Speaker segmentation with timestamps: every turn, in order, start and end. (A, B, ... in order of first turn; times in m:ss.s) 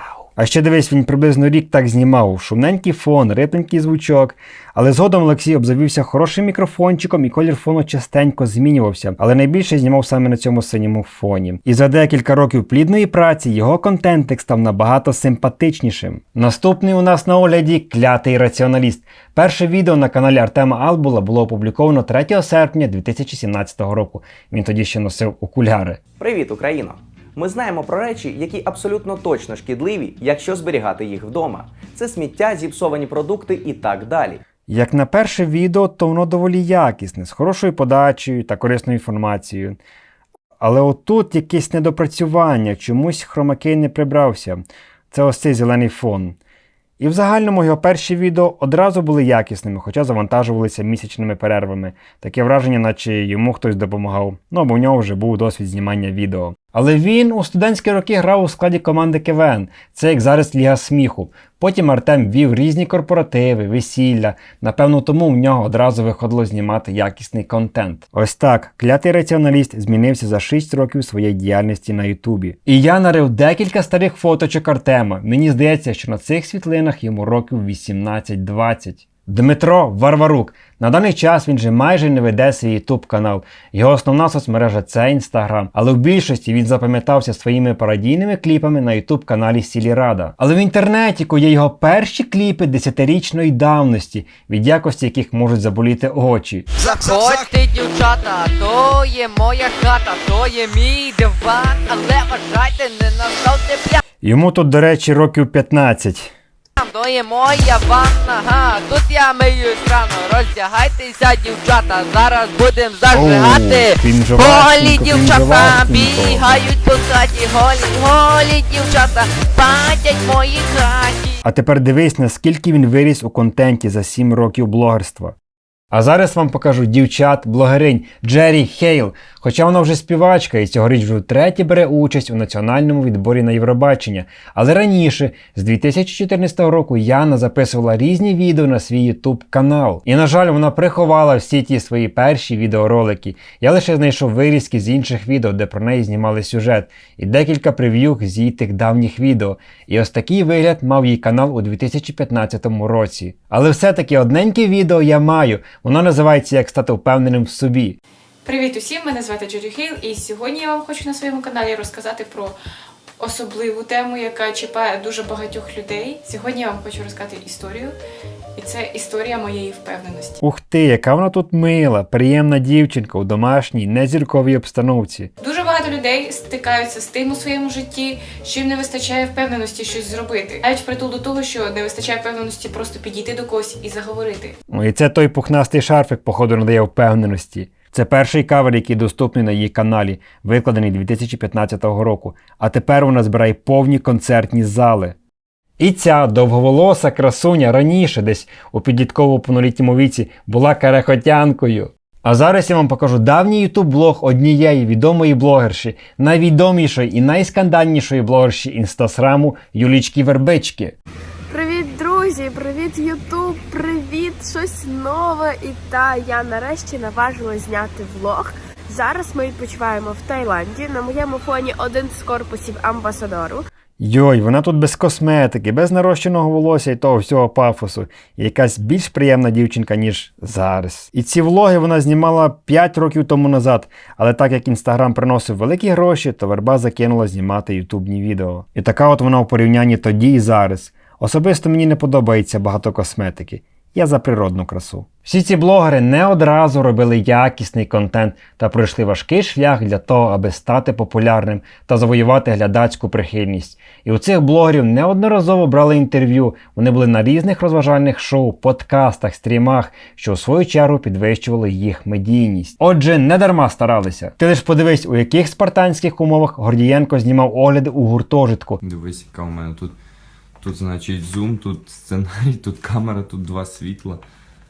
0:00.4-0:26.0 A
0:26.2-0:34.4 B
0:34.7-0:39.8 A
0:40.6-0:46.4 A
0:47.0-1:36.6 A
1:36.8-1:44.0 C
1:44.2-1:46.3 A
1:46.8-2:01.4 C
1:53.1-1:56.6 A
2:01.4-2:05.3 A
2:05.9-2:38.0 A
2:38.4-2:42.6 D
2:43.2-2:47.9 D
2:48.6-2:50.4 D
2:50.4-2:55.3 A
2:55.4-3:04.5 D
3:04.7-3:15.1 A
3:15.8-3:31.0 A
3:31.5-3:43.7 E
3:44.0-4:28.8 A
4:28.8-4:30.0 F
4:30.6-4:34.2 F